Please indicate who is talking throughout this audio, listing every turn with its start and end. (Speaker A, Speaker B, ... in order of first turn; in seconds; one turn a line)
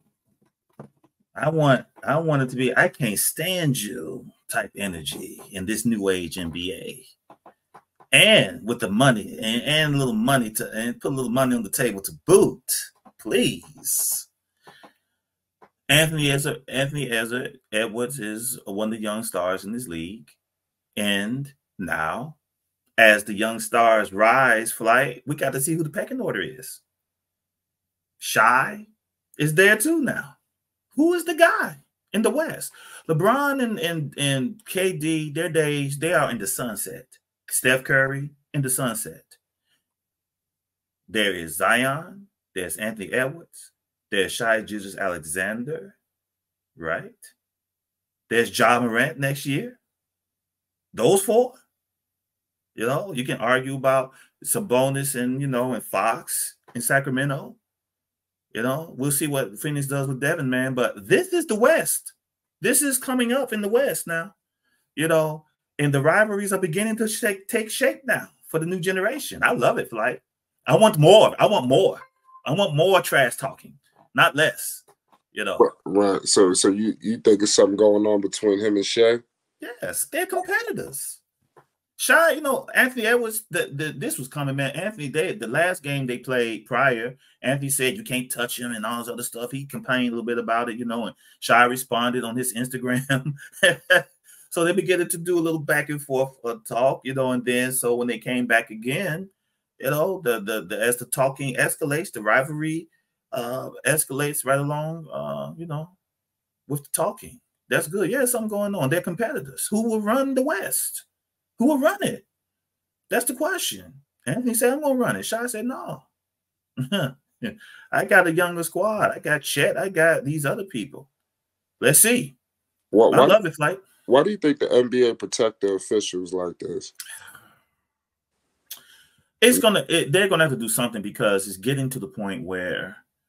Speaker A: 1.3-7.1
Speaker A: 8.1-14.3
Speaker A: 15.9-20.4
Speaker A: 20.9-22.4
Speaker A: 23.0-26.8
Speaker A: 28.2-30.4
Speaker A: 30.9-39.4
Speaker A: 41.1-46.0
Speaker A: 46.8-47.3
Speaker A: 48.3-49.8
Speaker A: 50.9-51.6
Speaker A: 52.8-57.6
Speaker A: 58.5-64.3
Speaker A: 64.9-75.7
Speaker B: 75.6-79.2
Speaker A: 79.6-81.2
Speaker A: 82.0-105.9
Speaker A: 106.7-111.0
Speaker A: 111.6-112.2
Speaker A: 113.1-116.1
Speaker A: 116.8-121.1
Speaker A: 121.8-122.3
Speaker B: 122.9-123.4
Speaker A: 123.1-123.8
Speaker B: 124.1-126.9
Speaker A: 129.4-133.0